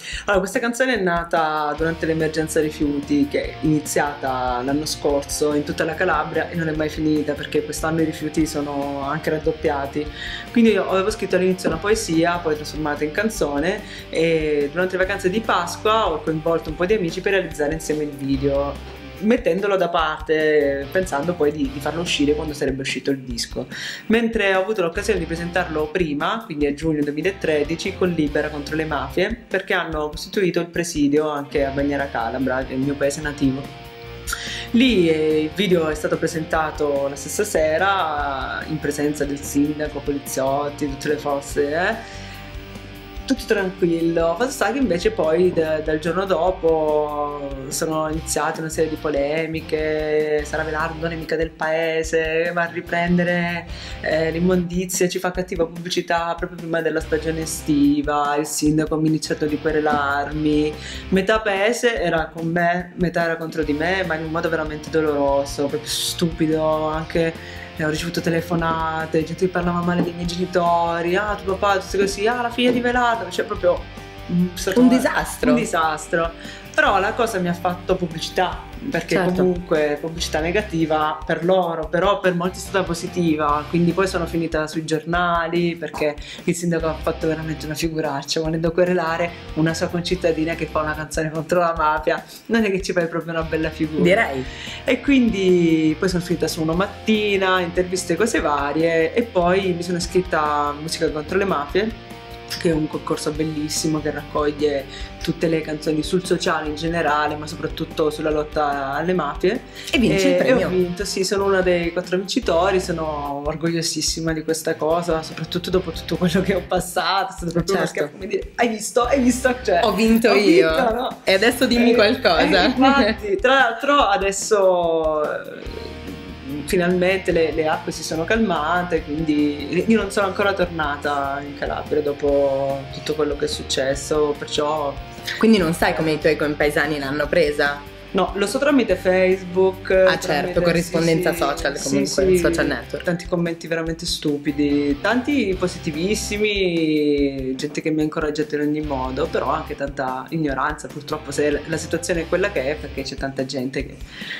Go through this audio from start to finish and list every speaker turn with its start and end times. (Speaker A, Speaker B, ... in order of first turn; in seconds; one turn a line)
Speaker A: 0.3-33.7
Speaker A: 34.7-42.0
Speaker A: 43.3-94.2
Speaker B: 74.7-75.7
Speaker B: 79.1-79.5
Speaker B: 94.0-94.5
Speaker A: 94.9-102.0
Speaker A: 102.5-121.2
Speaker B: 109.9-110.8
Speaker B: 117.6-118.1
Speaker B: 119.8-123.2
Speaker A: 121.8-135.1
Speaker B: 135.3-137.8
Speaker A: 138.1-154.0
Speaker B: 140.1-143.1